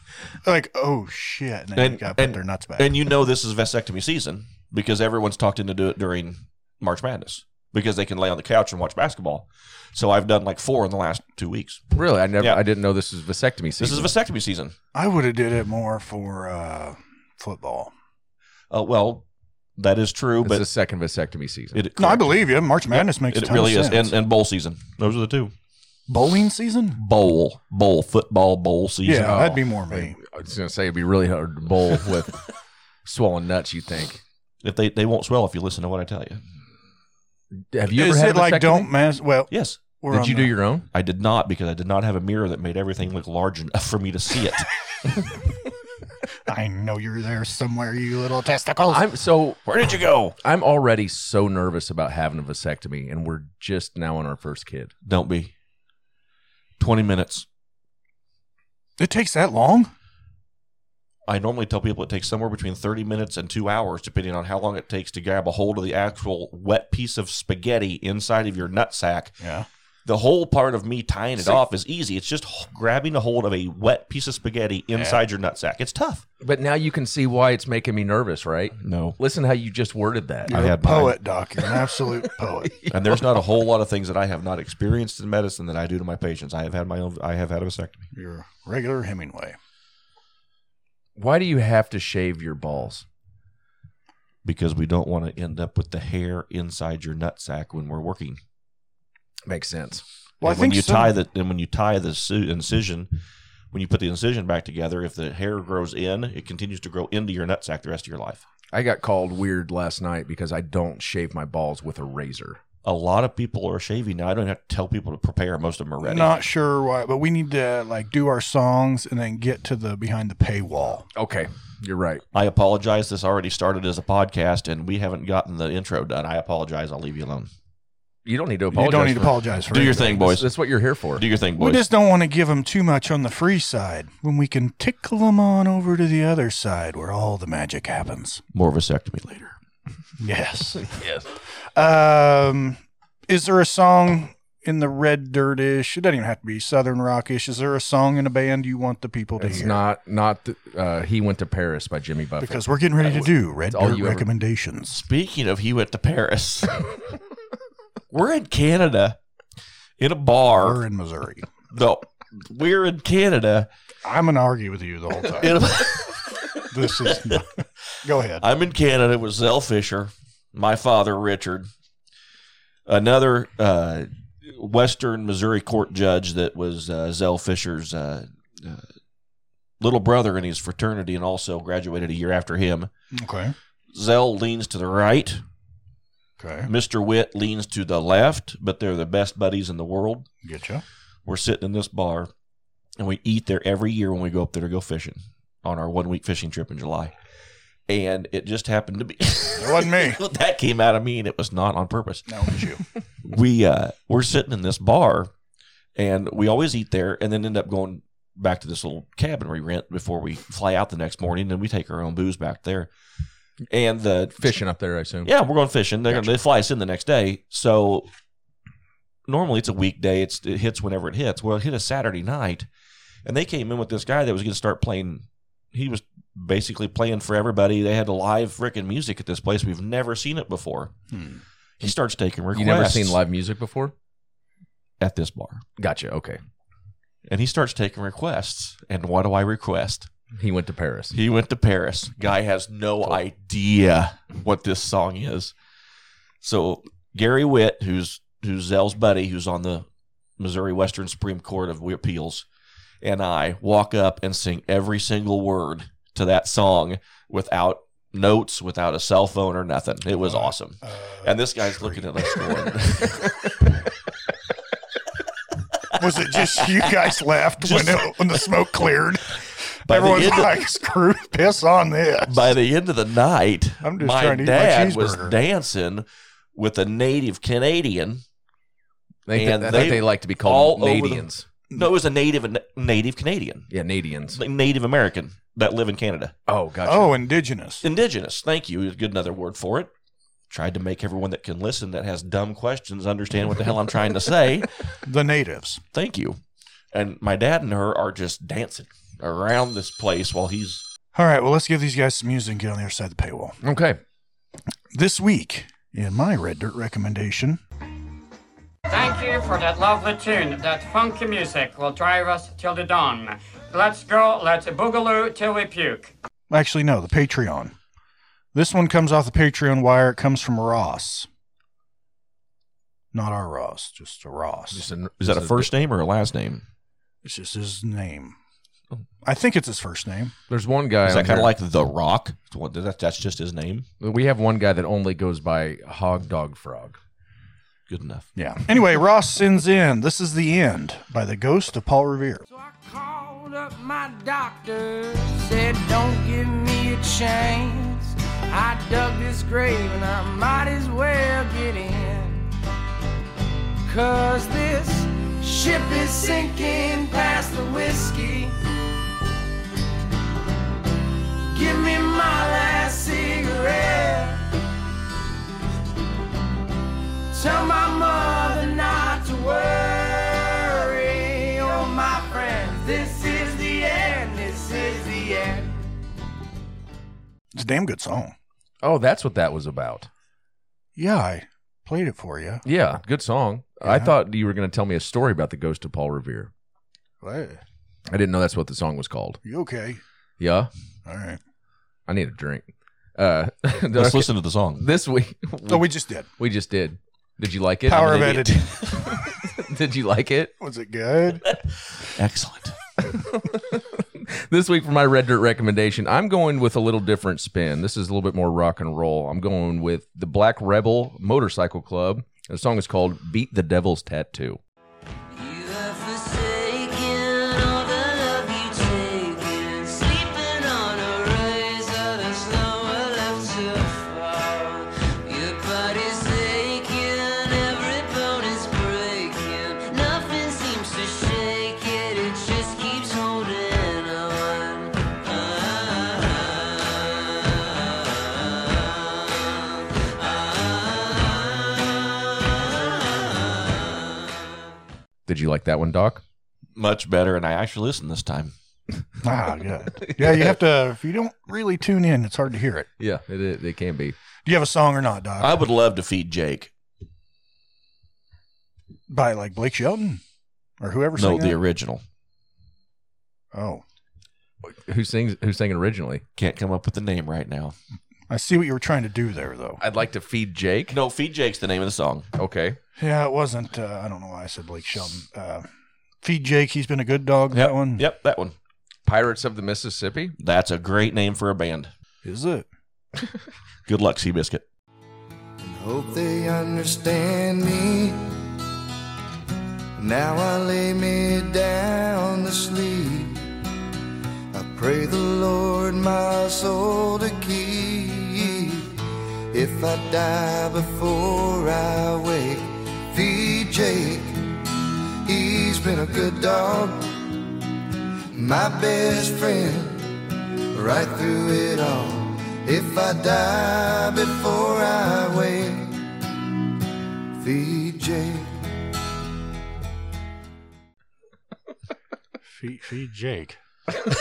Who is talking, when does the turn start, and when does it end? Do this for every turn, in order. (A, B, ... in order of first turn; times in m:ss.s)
0:00.4-0:03.0 A
0:01.8-0:11.8 B
0:11.9-0:14.1 C
0:13.8-0:14.8 B
0:14.9-0:17.9 A
0:18.7-0:19.2 B
0:19.8-0:20.7 B
0:20.4-0:21.8 C
0:21.7-0:25.5 B
0:22.0-0:24.2 A
0:26.1-0:27.0 A
0:27.0-0:29.5 B
0:29.0-0:30.2 A
0:29.2-0:32.4 C
0:33.0-0:34.2 C
0:34.6-0:36.4 B
0:37.7-0:38.9 C
0:37.9-0:40.6 A
0:39.5-0:39.8 B
0:40.1-0:40.9 C
0:40.9-0:44.7 B
0:46.5-0:49.1 A
0:48.9-0:49.6 C
0:49.7-0:50.4 B
0:50.4-0:54.9 C
0:55.0-0:55.5 B
0:56.8-0:57.5 B
0:59.0-0:59.9 A
1:01.3-1:09.4 B
1:09.4-1:09.7 A
1:10.1-1:16.2 B
1:16.4-1:20.5 C
1:18.8-1:19.2 B
1:20.5-1:22.7 A
1:20.5-1:21.2 B
1:22.9-1:28.1 B
1:28.1-1:29.6 A
1:31.2-1:33.0 C
1:34.4-1:38.4 B
1:39.5-1:40.0 C
1:40.4-1:41.2 A
1:40.4-1:43.1 B
1:43.7-1:48.4 B
1:48.7-1:52.6 C
1:52.8-1:56.4 B
1:56.0-2:01.1 A
2:01.2-2:02.2 C
2:02.3-2:07.5 B
2:08.2-2:09.4 C
2:08.7-2:10.3 A
2:08.8-2:10.5 B
2:10.2-2:11.2 C
2:11.2-2:11.8 B
2:11.6-2:18.4 A
2:18.5-2:19.6 B
2:20.2-2:20.9 A
2:20.9-2:21.3 C
2:21.7-2:29.8 A
2:29.4-2:34.3 C
2:32.4-2:35.0 A
2:34.9-2:37.0 B
2:38.1-2:39.2 B
2:40.0-2:40.8 B
2:40.5-2:41.5 A
2:41.7-2:43.7 B
2:44.0-2:45.6 A
2:45.4-2:47.4 B
2:46.7-2:48.4 A
2:48.4-2:51.7 B
2:52.9-2:58.9 B
2:59.8-3:02.9 B
3:03.1-3:03.5 A
3:03.9-3:05.4 B
3:06.4-3:06.7 A
3:06.6-3:10.3 B
3:10.4-3:10.8 A
3:11.3-3:12.3 B
3:13.0-3:17.1 B
3:17.9-3:22.3 B
3:19.6-3:20.2 A
3:22.3-3:22.8 A
3:23.2-3:25.3 B
3:26.0-3:32.9 B
3:33.7-3:34.6 B
3:34.4-3:35.3 C
3:35.2-3:38.1 B
3:39.3-3:42.7 B
3:43.2-3:50.9 B
3:51.1-3:51.4 A
3:51.8-3:53.2 B
3:52.5-3:53.9 C
3:55.0-3:55.6 B
3:55.8-3:56.4 C
3:57.3-4:00.1 B
4:00.4-4:01.2 C
4:01.1-4:05.5 B
4:06.4-4:09.9 B
4:10.4-4:12.5 B
4:13.0-4:23.8 B
4:20.2-4:22.7 A
4:26.0-4:32.5 A
4:27.6-4:28.4 B
4:29.9-4:30.6 B
4:32.3-4:38.2 B
4:33.8-4:35.4 A
4:39.3-4:41.5 C
4:39.3-4:43.7 B
4:43.7-4:44.4 C
4:44.3-4:46.4 B
4:46.5-4:47.2 C
4:46.9-4:47.8 A
4:47.8-4:49.9 B
4:50.5-4:54.7 B
4:55.0-4:55.8 A
4:55.9-4:56.4 B
4:56.9-5:00.8 B
5:01.1-5:03.6 A
5:03.6-5:04.0 C
5:04.9-5:07.6 A
5:08.9-5:16.1 D
5:16.5-5:17.8 A
5:18.5-5:21.3 A
5:23.1-5:24.8 A
5:24.7-5:25.7 C
5:25.2-5:26.6 B
5:27.2-5:28.4 A
5:29.2-5:30.3 A
5:30.5-5:31.5 C
5:31.0-5:33.9 B
5:34.0-5:37.0 C
5:37.9-5:38.3 B
5:38.4-5:42.4 A
5:42.5-5:52.5 E
5:53.9-5:58.6 E
6:01.5-6:04.4 E
6:07.3-6:15.8 E
6:17.6-6:18.4 A
6:18.8-6:20.1 C
6:21.0-6:22.6 A
6:22.6-6:26.5 C
6:23.8-6:24.2 A
6:27.2-6:27.6 A
6:28.1-6:29.4 C
6:29.4-6:30.0 A
6:30.4-6:30.7 C
6:31.1-6:31.4 A
6:32.1-6:40.5 C
6:33.9-6:34.8 B
6:35.7-6:36.3 A
6:37.9-6:38.9 A
6:40.6-6:41.5 A
6:42.0-6:42.8 B
6:43.0-6:54.6 C
6:55.3-7:17.0 F
7:20.6-7:21.0 F
7:25.3-7:26.2 C
7:26.8-7:28.5 B
7:29.2-7:32.9 A
7:30.0-7:30.5 C
7:33.0-7:34.2 C
7:34.5-7:35.6 A
7:35.4-7:36.7 B
7:39.1-7:40.2 A
7:40.8-7:41.6 A
7:41.2-7:42.0 B
7:43.5-7:43.8 A
7:44.6-7:46.2 C
7:46.4-7:47.8 B
7:48.3-7:49.8 A
7:49.8-7:51.0 C
7:50.9-7:52.3 B
7:52.4-7:52.8 C
7:53.0-7:55.7 A
7:56.2-7:58.0 A
7:57.5-7:58.6 B
7:59.0-8:00.4 C
8:00.4-8:01.9 B
8:02.2-8:02.7 A
8:03.9-8:04.7 B
8:05.6-8:08.4 G
8:10.0-8:13.5 G
8:14.5-8:24.6 G
8:25.2-8:27.3 G
8:28.3-8:36.0 G
8:37.4-8:38.6 G
8:42.6-8:43.6 A